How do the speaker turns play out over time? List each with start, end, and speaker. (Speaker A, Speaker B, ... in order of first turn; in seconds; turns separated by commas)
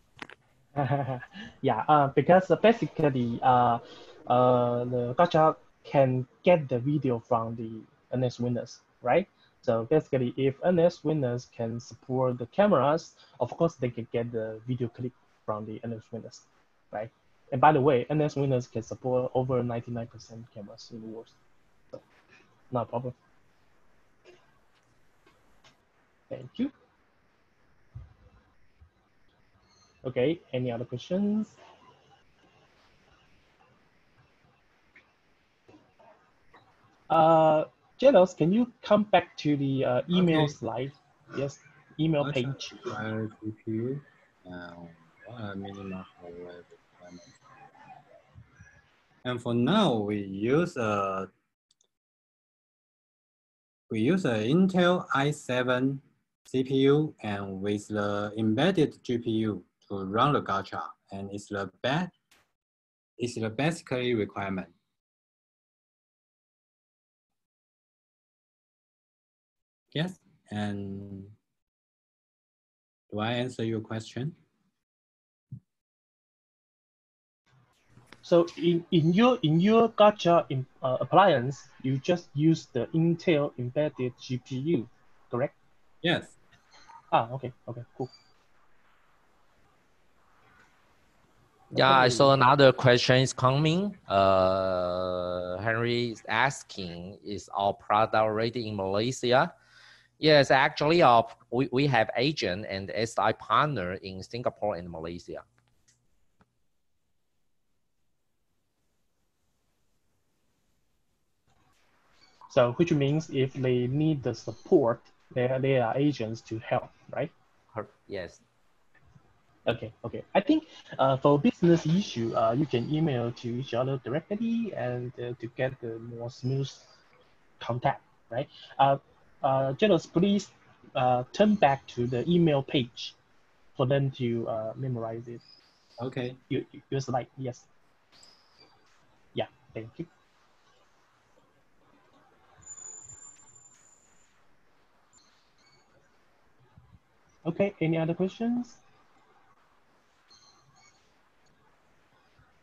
Speaker A: 0.8-21.4, Speaker A: 22.7-23.1, Speaker A: 26.3-26.7, Speaker A: 30.0-31.6, Speaker A: 37.1-42.8, Speaker B: 40.1-40.5, Speaker B: 42.2-47.4, Speaker B: 49.2-51.3, Speaker B: 53.9-62.1, Speaker B: 63.2-64.7, Speaker B: 69.9-71.3, Speaker B: 73.1-74.3, Speaker A: 78.2-85.5, Speaker B: 86.0-86.4, Speaker A: 87.1-88.1, Speaker A: 91.7-92.3, Speaker C: 91.7-99.5, Speaker C: 100.2-105.4, Speaker A: 112.5-117.3, Speaker C: 117.7-118.4, Speaker A: 119.7-126.9, Speaker A: 127.6-133.2, Speaker A: 133.8-135.4, Speaker B: 136.0-136.4, Speaker A: 136.5-137.7, Speaker A: 139.3-140.1, Speaker A: 147.4-148.8